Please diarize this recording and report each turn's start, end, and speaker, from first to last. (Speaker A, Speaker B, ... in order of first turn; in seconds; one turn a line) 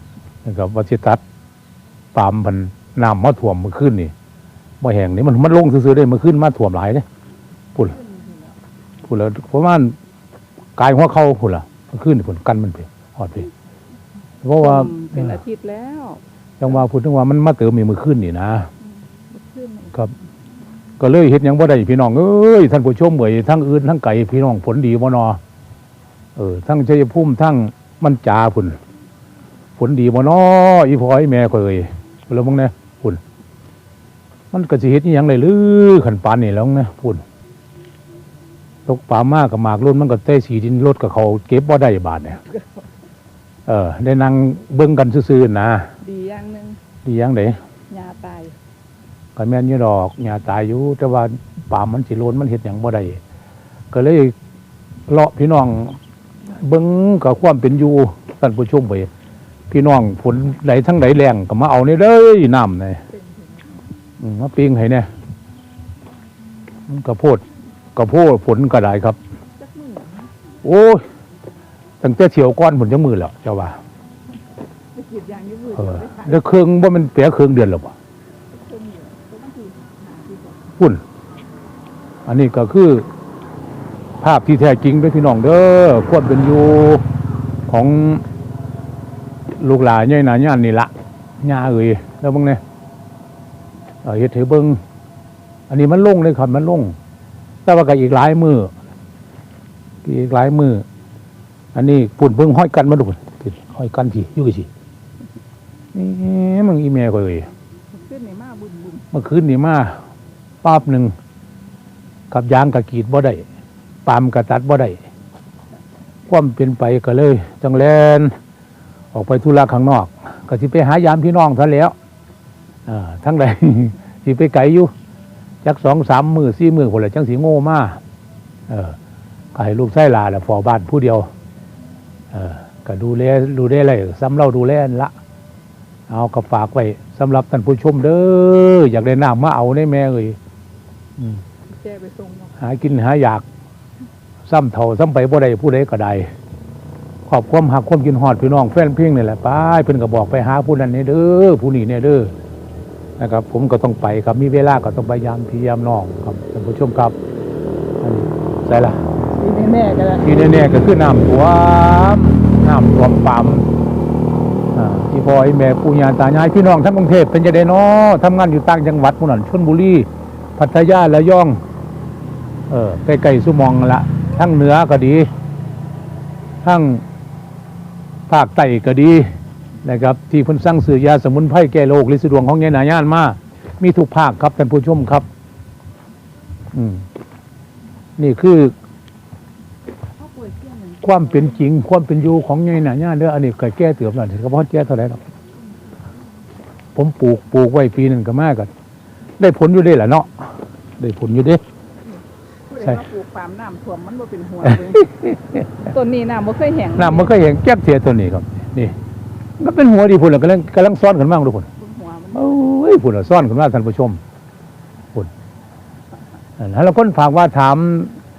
Speaker A: 0.4-1.2
Speaker A: 2.1-4.1
Speaker A: 4.8-7.0
Speaker B: 7.9-8.5
Speaker A: 9.1-10.0
Speaker A: 10.8-13.5
Speaker A: 14.4-15.4
Speaker B: 14.6-16.2
Speaker A: 16.6-18.7
Speaker B: 19.1-20.0
Speaker A: 21.0-25.4
Speaker A: 26.4-28.8
Speaker A: 29.8-33.2
Speaker A: 34.5-37.2
Speaker A: 38.9-42.4
Speaker A: 43.7-45.9
Speaker B: 46.0-46.8
Speaker A: 47.0-47.6
Speaker B: 47.9-48.6
Speaker A: 49.4-53.2
Speaker A: 53.9-54.4
Speaker A: 55.1-59.1
Speaker A: 59.7-63.0
Speaker B: 63.1-63.8
Speaker A: 64.2-65.1
Speaker A: 66.9-67.4
Speaker A: 68.0-69.2
Speaker B: 69.6-70.3
Speaker A: 70.6-71.1
Speaker A: 72.0-73.8
Speaker B: 74.9-76.6
Speaker A: 75.8-78.0
Speaker B: 78.5-80.8
Speaker A: 82.3-83.1
Speaker A: 84.2-87.0
Speaker A: 87.7-88.2
Speaker A: 89.5-92.6
Speaker A: 94.0-94.8
Speaker A: 95.7-97.0
Speaker A: 97.7-98.7
Speaker A: 100.0-100.8
Speaker A: 101.7-104.7
Speaker A: 105.9-107.5
Speaker B: 107.9-109.1
Speaker A: 109.1-110.0
Speaker A: 110.6-111.1
Speaker A: 112.3-113.5
Speaker A: 114.1-115.0
Speaker A: 116.3-118.4
Speaker A: 119.1-122.0
Speaker A: 122.9-124.9
Speaker A: 125.6-128.0
Speaker A: 128.7-129.0
Speaker A: 129.6-131.3
Speaker A: 132.3-135.1
Speaker A: 136.1-140.4
Speaker B: 141.7-142.6
Speaker A: 142.6-143.5
Speaker A: 144.5-146.3
Speaker A: 147.3-152.3
Speaker A: 153.2-157.2
Speaker A: 158.0-159.0
Speaker B: 159.3-160.5
Speaker A: 160.2-163.7
Speaker A: 164.7-171.6
Speaker A: 172.7-175.3
Speaker A: 176.6-177.1
Speaker A: 178.3-179.3
Speaker A: 179.8-185.3
Speaker A: 186.7-187.1
Speaker A: 188.2-188.7
Speaker B: 190.2-191.6
Speaker A: 191.0-195.2
Speaker A: 196.9-198.7
Speaker A: 199.4-201.6
Speaker B: 202.7-207.4
Speaker A: 204.9-205.7
Speaker A: 206.9-209.0
Speaker A: 209.6-211.7
Speaker B: 211.8-212.7
Speaker A: 212.3-214.2
Speaker A: 216.6-218.2